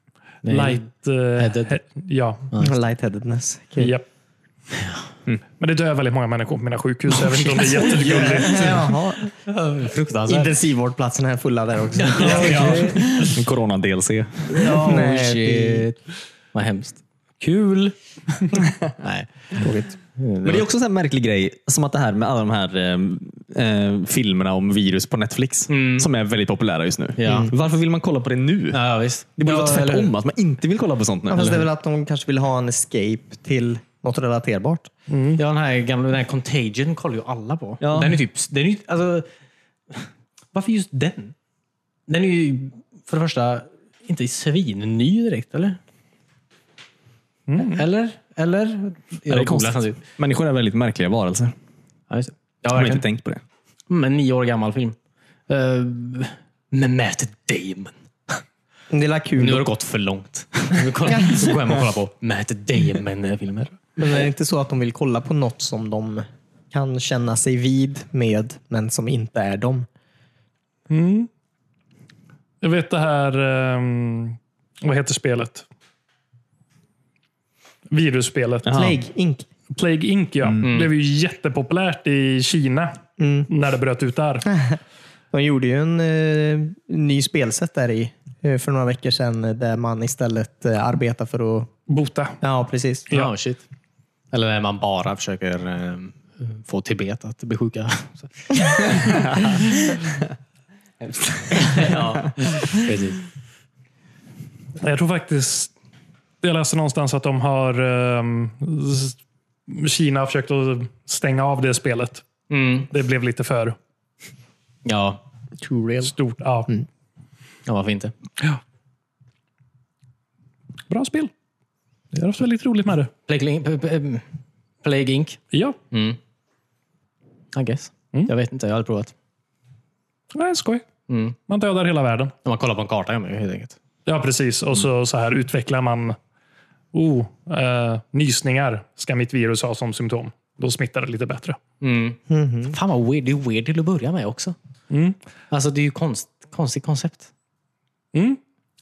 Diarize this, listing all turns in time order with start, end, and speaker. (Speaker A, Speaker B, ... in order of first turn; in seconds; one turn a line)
Speaker A: 0.4-0.8
Speaker B: 0.5-2.5
Speaker A: 1.4-1.8
Speaker C: 2.6-3.9
Speaker B: 3.8-4.0
Speaker B: 5.6-8.9
Speaker C: 7.9-9.3
Speaker A: 8.1-8.6
Speaker A: 9.3-10.6
Speaker C: 10.3-13.0
Speaker A: 11.9-13.3
Speaker D: 12.2-15.0
Speaker B: 12.5-12.7
Speaker A: 14.5-16.0
Speaker C: 14.6-15.9
Speaker A: 16.5-17.9
Speaker A: 19.0-19.3
Speaker C: 19.6-19.9
Speaker A: 20.1-20.6
Speaker D: 20.4-28.8
Speaker A: 25.7-26.1
Speaker A: 27.2-27.5
Speaker C: 27.2-27.5
Speaker A: 28.7-30.1
Speaker D: 29.4-31.6
Speaker C: 31.3-34.9
Speaker B: 35.1-35.4
Speaker A: 35.4-39.3
Speaker D: 37.8-38.2
Speaker A: 39.9-41.3
Speaker A: 42.1-45.8
Speaker B: 47.5-47.8
Speaker A: 47.6-50.0
Speaker D: 49.3-51.5
Speaker A: 52.1-53.0
Speaker D: 52.7-53.4
Speaker A: 53.9-55.0
Speaker A: 55.5-57.9
Speaker C: 58.9-59.7
Speaker A: 59.4-63.7
Speaker C: 61.1-61.3
Speaker C: 64.0-69.9
Speaker B: 70.9-71.3
Speaker B: 72.6-75.7
Speaker B: 77.9-78.7
Speaker D: 78.6-79.0
Speaker C: 78.7-79.5
Speaker B: 79.7-83.0
Speaker A: 80.6-80.9
Speaker C: 83.2-83.5
Speaker B: 83.5-84.5
Speaker C: 84.5-84.8
Speaker C: 85.3-91.7
Speaker B: 91.9-92.4
Speaker C: 92.4-93.1
Speaker A: 93.1-93.6
Speaker A: 94.3-99.5
Speaker A: 101.5-103.2
Speaker D: 101.6-101.9
Speaker B: 104.8-105.7
Speaker B: 106.4-109.2
Speaker B: 109.7-112.2
Speaker A: 112.5-112.9
Speaker B: 112.9-113.8
Speaker A: 114.8-115.2
Speaker C: 115.6-116.1
Speaker B: 116.0-116.7
Speaker A: 117.7-118.1
Speaker B: 120.9-121.3
Speaker B: 122.1-123.1
Speaker A: 123.3-124.2
Speaker A: 124.8-125.4
Speaker B: 125.5-125.8
Speaker A: 125.9-126.2
Speaker A: 127.5-129.1
Speaker B: 130.3-130.8
Speaker A: 131.1-131.4
Speaker B: 131.5-132.3
Speaker A: 132.4-133.8
Speaker B: 134.1-136.2
Speaker B: 136.9-141.6
Speaker A: 141.8-144.5
Speaker C: 142.3-142.7
Speaker B: 144.9-145.2
Speaker A: 145.5-147.3
Speaker B: 148.1-148.4